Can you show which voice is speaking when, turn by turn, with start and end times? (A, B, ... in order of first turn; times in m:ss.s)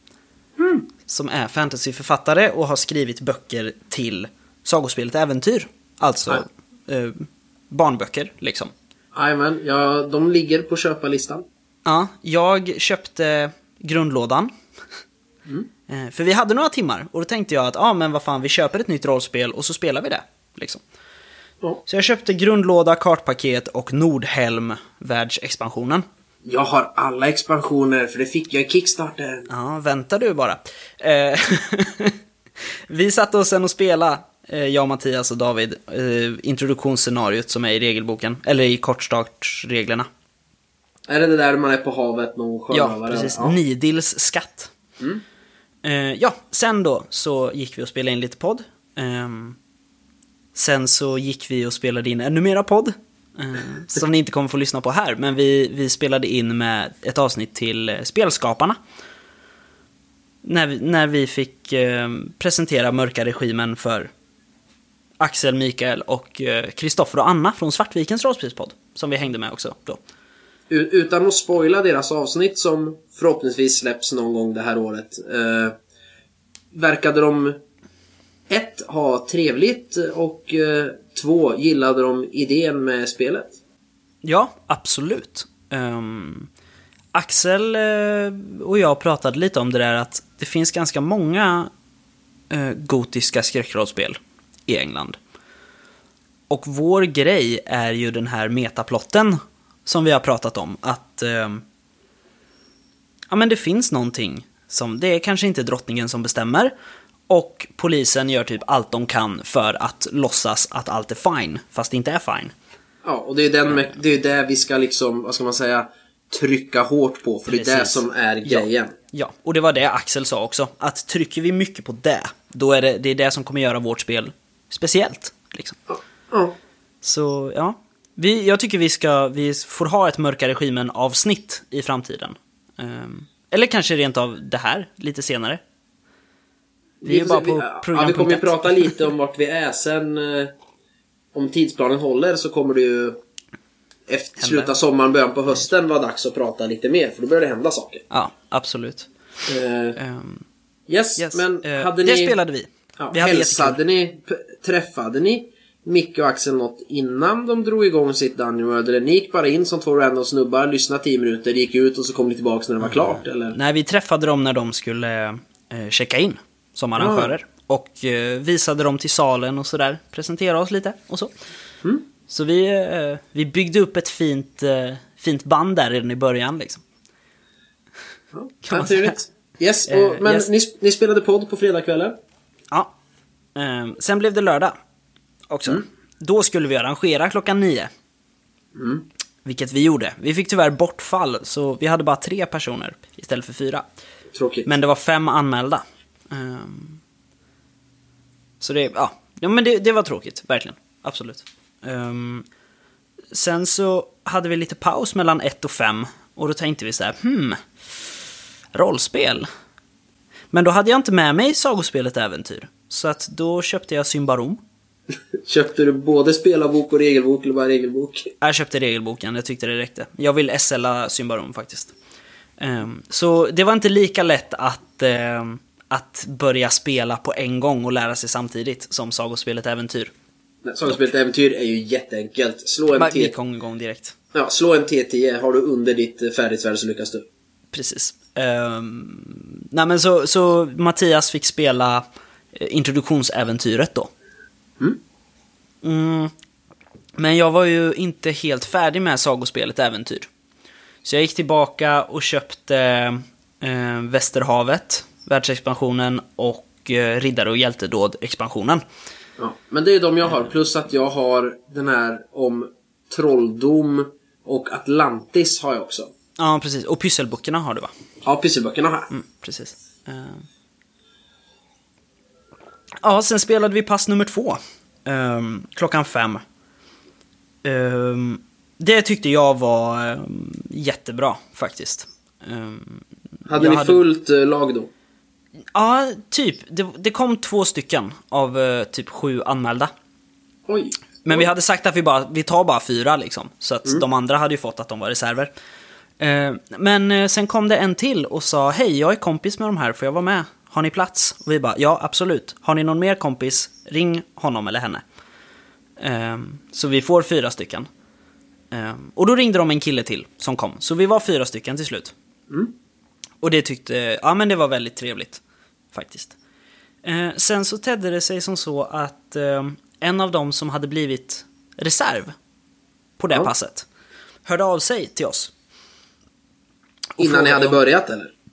0:00.6-0:00.9 A
0:01.1-0:08.7 B
0:09.1-0:11.5 A
0:11.9-0:14.5 B
0:15.9-0:20.8 B
0:21.9-0:26.0 B
0:26.5-0:29.5 A
0:29.5-0:32.2 B
0:32.9-0:40.1 B
0:41.1-0:43.6 A
0:42.7-0:44.7 B
0:45.8-0:49.6 B
0:50.6-0:58.8 B
1:00.4-1:04.1 B
1:05.2-1:10.0 B
1:10.7-1:15.8 A
1:16.7-1:17.6 A
1:18.5-1:23.6 A
1:24.2-1:26.5 B
1:27.1-1:31.7 B
1:32.5-1:35.2 B
1:36.5-1:41.6 B
1:43.3-1:46.7 B
1:47.3-1:52.5 B
1:53.0-1:59.0 A
1:57.5-2:05.8 B
2:05.9-2:06.6 A
2:07.0-2:15.6 B
2:17.0-2:20.5 A
2:17.1-2:18.9 B
2:21.3-2:23.2 A
2:24.1-2:28.0 A
2:24.4-2:24.7 B
2:28.1-2:29.1 B
2:29.5-2:30.0 A
2:30.0-2:30.4 B
2:30.9-2:32.4 A
2:31.2-2:33.8 B
2:33.0-2:43.6 A
2:43.5-2:51.3 B
2:47.0-2:47.3 A
2:52.3-2:56.8 B
2:58.3-3:02.2 A
2:58.6-2:59.2 B
2:59.9-3:00.5 B
3:03.6-3:04.8 B
3:05.5-3:07.9 B
3:08.8-3:09.1 A
3:09.4-3:13.8 B
3:14.3-3:14.7 A
3:14.7-3:17.0 B
3:18.6-3:22.5 B
3:23.3-3:27.6 B
3:28.7-3:29.5 B
3:30.5-3:34.6 B
3:35.4-3:38.3 A
3:38.4-3:41.9 B
3:42.6-3:50.1 B
3:50.6-3:53.4 A
3:53.0-3:54.2 B
3:54.3-3:57.3 A
3:57.7-4:04.1 B
4:05.8-4:06.3 B
4:07.2-4:10.3 B
4:11.0-4:18.8 B
4:19.4-4:26.1 A
4:26.4-4:27.9 B
4:28.2-4:29.1 A
4:29.1-4:30.4 B
4:33.0-4:36.4 B
4:37.6-4:43.0 B
4:43.5-4:44.9 A
4:43.6-4:44.0 B
4:45.8-4:49.9 B
4:50.7-4:51.5 A
4:51.2-4:55.5 B
4:56.2-5:05.0 B
5:06.0-5:07.9 B
5:08.7-5:12.1 B
5:13.4-5:15.4 B
5:15.9-5:16.4 B
5:17.0-5:22.3 B
5:23.2-5:23.9 B
5:24.5-5:25.5 B
5:27.2-5:27.8 B
5:27.2-5:28.3 A